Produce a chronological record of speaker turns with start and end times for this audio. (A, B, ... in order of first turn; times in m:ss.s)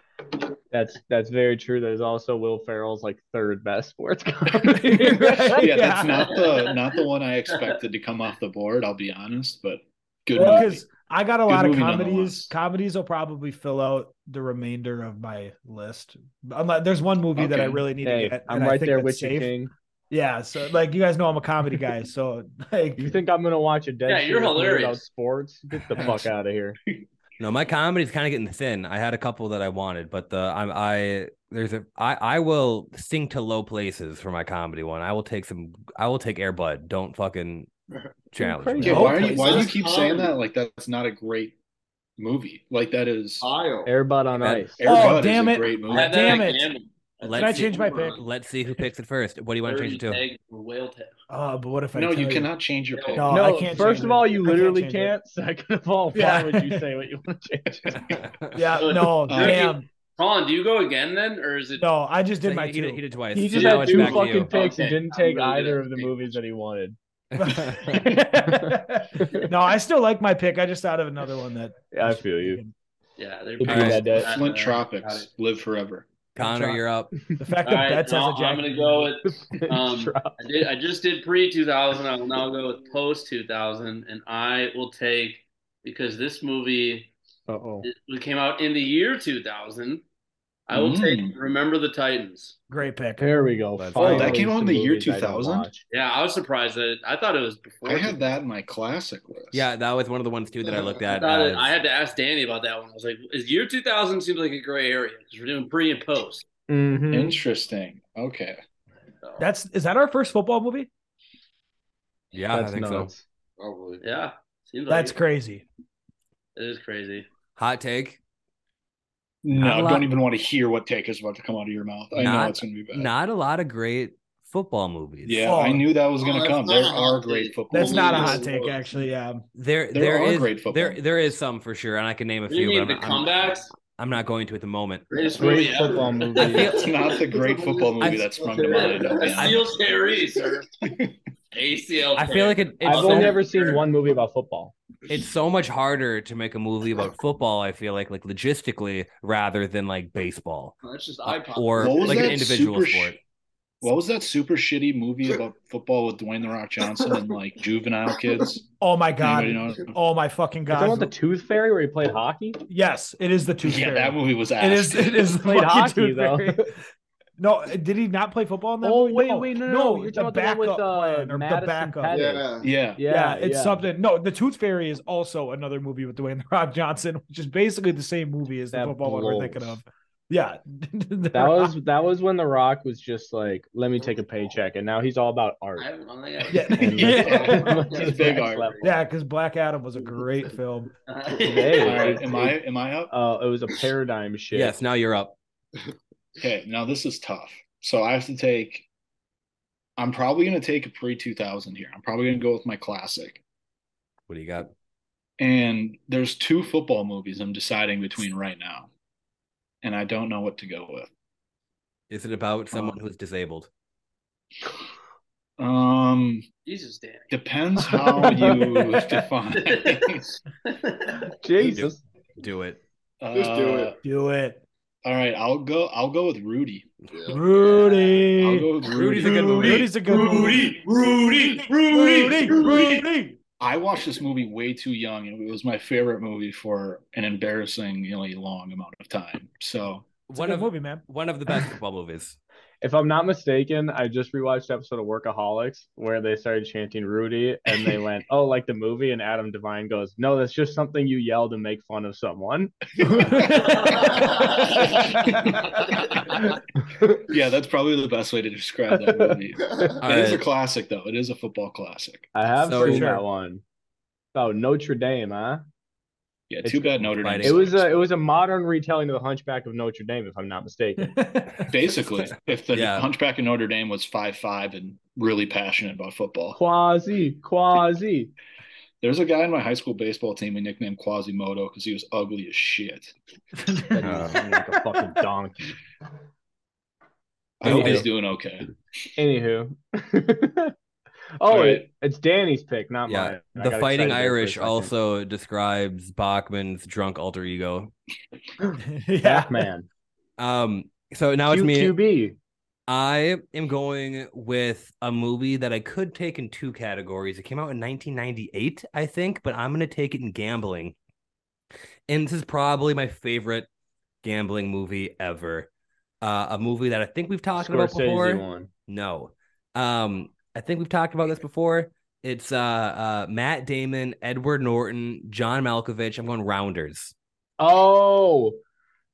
0:00.7-0:05.6 A
0:04.7-0:06.3 B
0:05.5-0:10.8 C
0:06.4-0:07.0 D
0:10.3-0:19.5 B
0:11.4-0:12.5 C
0:17.4-0:17.9 C
0:18.0-0:19.7 A
0:20.1-0:23.2 B
0:23.0-0:26.8 A
0:24.1-0:25.0 D
0:27.4-0:37.7 E
0:38.3-0:39.1 E
0:38.4-0:39.7 A
0:38.8-0:41.5 C
0:38.8-0:39.7 B
0:39.3-0:40.3 F
0:42.2-0:43.4 C
0:43.4-0:43.9 F
0:43.8-0:44.8 A
0:44.4-0:44.7 E
0:44.8-0:46.5 C
0:44.8-0:46.6 B
0:45.9-0:48.2 D
0:47.2-0:50.2 E
0:47.3-0:48.2 B
0:49.6-0:51.1 D
0:51.3-0:52.5 B
0:51.9-0:53.6 C
0:52.9-0:54.1 D
0:53.2-0:55.1 B
0:53.3-0:58.0 A
0:56.1-0:56.9 B
0:57.8-0:58.2 C
0:58.2-0:58.5 E
0:58.5-0:59.8 B
0:58.8-1:01.9 D
0:59.3-0:59.6 C
1:01.8-1:03.0 B
1:02.4-1:04.5 E
1:03.3-1:07.0 A
1:03.5-1:06.4 D
1:07.3-1:08.1 E
1:07.4-1:12.7 B
1:07.7-1:08.2 C
1:08.5-1:09.5 A
1:11.9-1:12.6 A
1:13.2-1:15.3 D
1:13.6-1:14.3 A
1:13.6-1:14.0 E
1:14.1-1:16.1 C
1:16.3-1:17.1 E
1:16.4-1:16.8 B
1:17.4-1:19.1 B
1:17.6-1:27.1 D
1:19.3-1:20.4 A
1:27.5-1:27.8 A
1:27.8-1:30.0 D
1:30.7-1:32.6 D
1:30.7-1:31.4 C
1:32.7-1:33.3 B
1:33.2-1:35.8 A
1:33.8-1:34.4 E
1:34.0-1:35.7 C
1:34.0-1:34.3 B
1:35.9-1:38.2 D
1:37.8-1:39.7 C
1:39.5-1:41.7 E
1:41.1-1:46.4 D
1:46.7-1:47.4 A
1:47.1-1:48.6 C
1:49.4-1:50.9 B
1:52.3-1:53.1 E
1:52.5-1:53.2 A
1:53.6-1:54.0 F
1:54.0-1:55.2 D
1:54.9-1:55.6 B
1:56.6-1:57.3 D
1:57.6-1:58.2 E
1:59.4-2:03.1 C
1:59.6-2:00.1 E
2:02.1-2:05.5 E
2:05.2-2:08.4 C
2:05.4-2:05.9 B
2:06.2-2:08.8 F
2:07.7-2:09.4 B
2:09.5-2:15.0 E
2:09.9-2:11.0 C
2:12.5-2:13.7 D
2:15.1-2:17.9 D
2:15.4-2:16.7 A
2:16.4-2:17.0 E
2:16.7-2:19.7 C
2:18.0-2:19.6 E
2:18.5-2:20.7 D
2:20.8-2:21.1 C
2:21.5-2:23.8 D
2:22.2-2:23.4 E
2:22.8-2:24.7 A
2:25.1-2:33.2 E
2:30.8-2:32.4 D
2:31.8-2:33.2 C
2:33.8-2:38.6 C
2:38.8-2:41.1 B
2:39.2-2:39.9 C
2:40.7-2:42.6 A
2:42.7-2:46.7 B
2:43.6-2:45.3 C
2:45.4-2:46.7 A
2:47.4-2:52.2 B
2:48.8-2:53.9 A
2:52.1-2:52.7 F
2:52.6-2:53.0 C
2:53.1-3:01.7 B
2:58.7-2:59.8 A
3:01.3-3:05.9 A
3:05.8-3:08.8 D
3:06.5-3:07.8 B
3:06.8-3:08.8 A
3:06.9-3:08.7 C
3:08.8-3:10.9 B
3:11.1-3:12.5 D
3:11.4-3:12.6 A
3:11.8-3:13.1 C
3:13.1-3:14.7 A
3:14.5-3:15.4 E
3:16.4-3:18.8 C
3:20.0-3:23.4 C
3:24.3-3:24.7 E
3:25.4-3:28.9 C
3:29.8-3:31.1 C
3:32.1-3:33.7 E
3:35.6-3:36.4 C
3:36.6-3:37.4 D
3:37.3-3:40.2 C
3:38.1-3:39.1 B
3:38.2-3:38.6 A
3:39.6-3:41.3 D
3:41.4-3:42.0 A
3:41.6-3:42.8 E
3:43.2-3:44.0 C
3:43.3-3:43.9 F
3:44.0-3:44.6 B
3:45.0-3:46.9 C
3:47.1-3:47.4 F
3:47.3-3:50.7 B
3:48.4-3:49.8 C
3:48.9-3:49.9 E
3:49.2-3:53.1 D
3:51.5-3:53.4 B
3:53.6-4:00.1 C
4:00.3-4:02.4 E
4:00.3-4:01.0 B
4:02.8-4:13.4 A
4:13.3-4:14.2 B
4:13.8-4:14.8 D
4:14.0-4:16.2 C
4:15.8-4:16.4 D
4:17.1-4:22.3 C
4:19.0-4:19.9 A
4:20.0-4:20.4 E
4:22.3-4:23.6 A
4:22.6-4:23.1 E
4:22.7-4:23.2 B
4:24.3-4:25.6 A
4:26.5-4:28.0 C
4:26.6-4:26.9 A
4:27.2-4:27.6 E
4:27.4-4:31.1 A
4:31.0-4:31.8 B
4:31.7-4:36.6 C
4:32.7-4:33.1 E
4:36.5-4:38.3 A
4:39.0-4:43.1 C
4:43.6-4:44.3 B
4:43.9-4:45.7 A
4:44.0-4:44.4 E
4:47.6-4:48.7 C
4:47.6-4:48.1 E
4:47.6-4:48.1 A
4:49.2-4:50.7 A
4:51.4-4:54.9 A
4:51.4-4:51.9 C
4:53.0-4:57.9 E
4:58.6-4:59.9 A
4:58.8-4:59.6 B
5:00.4-5:02.0 E
5:01.5-5:02.4 A
5:02.9-5:10.9 E
5:12.1-5:13.7 E
5:14.2-5:15.7 E
5:16.2-5:27.1 E
5:17.6-5:18.7 A
5:27.6-5:28.6 A